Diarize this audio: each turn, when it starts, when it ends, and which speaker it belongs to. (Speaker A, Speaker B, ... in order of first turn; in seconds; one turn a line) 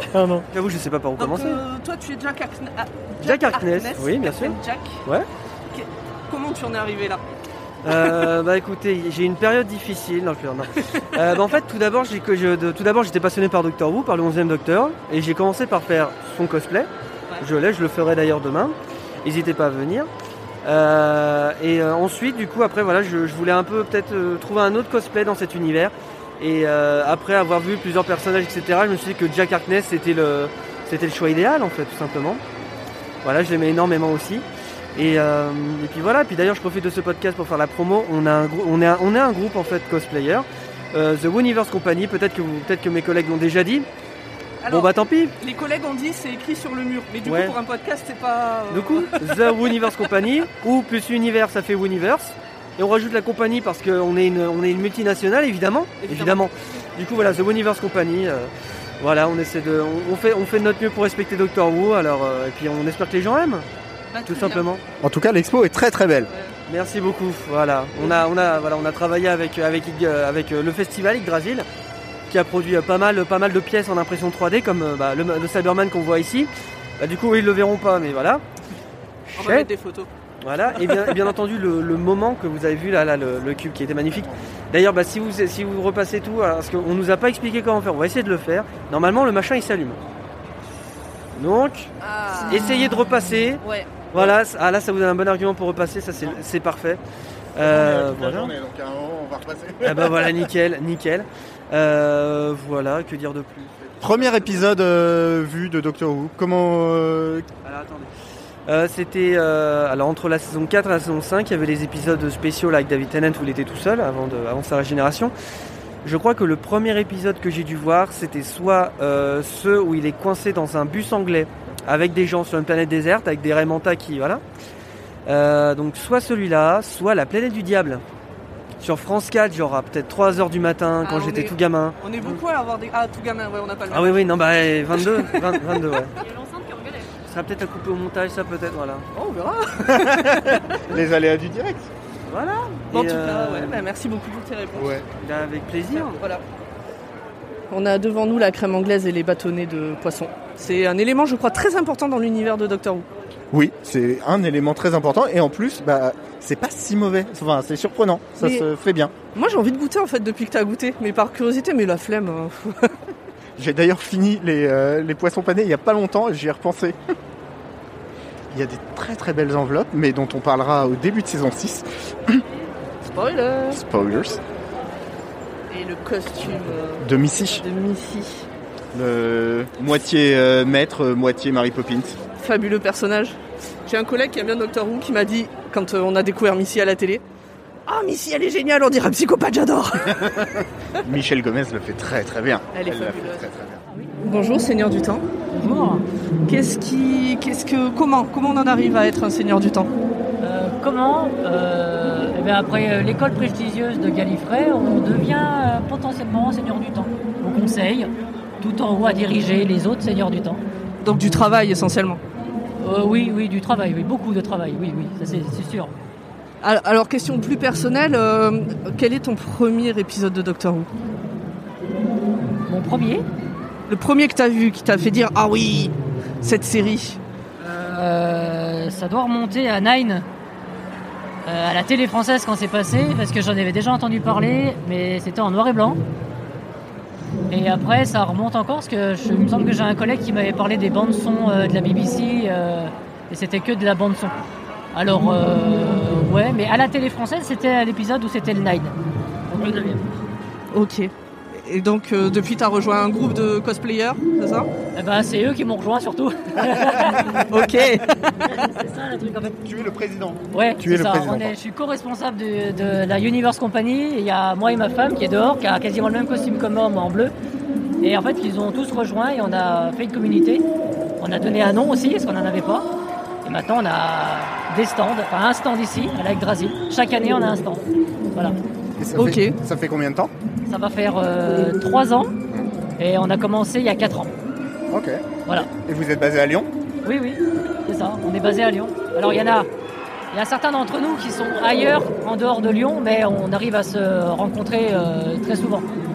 Speaker A: 0.5-1.6
Speaker B: 1.2-5.0
Speaker A: 3.2-5.3
Speaker B: 5.7-7.2
Speaker A: 7.8-20.1
Speaker A: 20.6-32.4
Speaker A: 33.2-43.9
Speaker B: 44.6-49.7
Speaker A: 44.7-45.3
Speaker A: 47.2-47.6
Speaker A: 48.7-63.7
Speaker B: 56.0-56.5
Speaker B: 64.1-64.7
Speaker A: 64.3-64.8
Speaker C: 65.0-66.3
Speaker A: 66.7-71.7
Speaker A: 72.3-78.4
Speaker A: 79.3-79.7
Speaker B: 79.3-80.1
Speaker A: 80.4-90.0
Speaker B: 80.8-81.2
Speaker A: 91.4-91.9
Speaker B: 92.0-92.7
Speaker A: 92.5-97.0
Speaker B: 93.6-93.9
Speaker A: 97.5-98.5
Speaker C: 97.6-100.5
Speaker A: 99.8-104.7
Speaker C: 104.0-107.5
Speaker A: 107.6-108.1
Speaker A: 108.7-115.3
Speaker A: 116.0-124.4
Speaker A: 125.3-128.0
Speaker A: 128.8-132.4
Speaker B: 131.0-135.6
Speaker A: 133.9-136.1
Speaker A: 137.2-139.1
Speaker B: 139.2-140.6
Speaker C: 140.1-141.9
Speaker A: 142.3-143.8
Speaker B: 142.9-145.1
Speaker C: 144.8-145.0
Speaker A: 145.1-146.2
Speaker B: 145.9-146.4
Speaker B: 147.7-153.1
Speaker C: 153.5-159.1
Speaker B: 158.4-158.7
Speaker B: 159.3-162.9
Speaker C: 163.6-167.0
Speaker C: 168.5-172.4
Speaker B: 173.2-173.8
Speaker C: 173.7-174.4
Speaker B: 175.7-178.5
Speaker C: 177.0-177.6
Speaker C: 178.9-182.2
Speaker B: 182.4-187.2
Speaker B: 187.9-190.1
Speaker C: 190.2-190.5
Speaker C: 191.0-193.8
Speaker B: 192.7-193.5
Speaker B: 194.2-195.2
Speaker D: 195.5-196.1
Speaker B: 196.5-199.9
Speaker D: 200.4-210.6
Speaker B: 211.0-212.2
Speaker D: 212.8-215.9
Speaker B: 216.6-220.9
Speaker D: 222.7-223.2
Speaker B: 223.9-227.2
Speaker D: 227.6-230.3
Speaker D: 231.5-236.0
Speaker D: 237.5-244.4
Speaker D: 244.9-248.9
Speaker D: 249.5-250.1
Speaker B: 250.7-254.7
Speaker D: 254.9-257.3
Speaker B: 257.5-258.1
Speaker D: 258.5-259.6
Speaker C: 259.6-261.5
Speaker D: 260.5-267.3
Speaker D: 268.0-270.6
Speaker D: 271.2-272.9
Speaker D: 273.4-278.6
Speaker C: 279.0-280.3
Speaker B: 279.2-279.5
Speaker D: 280.7-282.4
Speaker D: 283.0-284.3
Speaker C: 284.9-286.7
Speaker D: 287.1-289.7
Speaker D: 290.3-295.9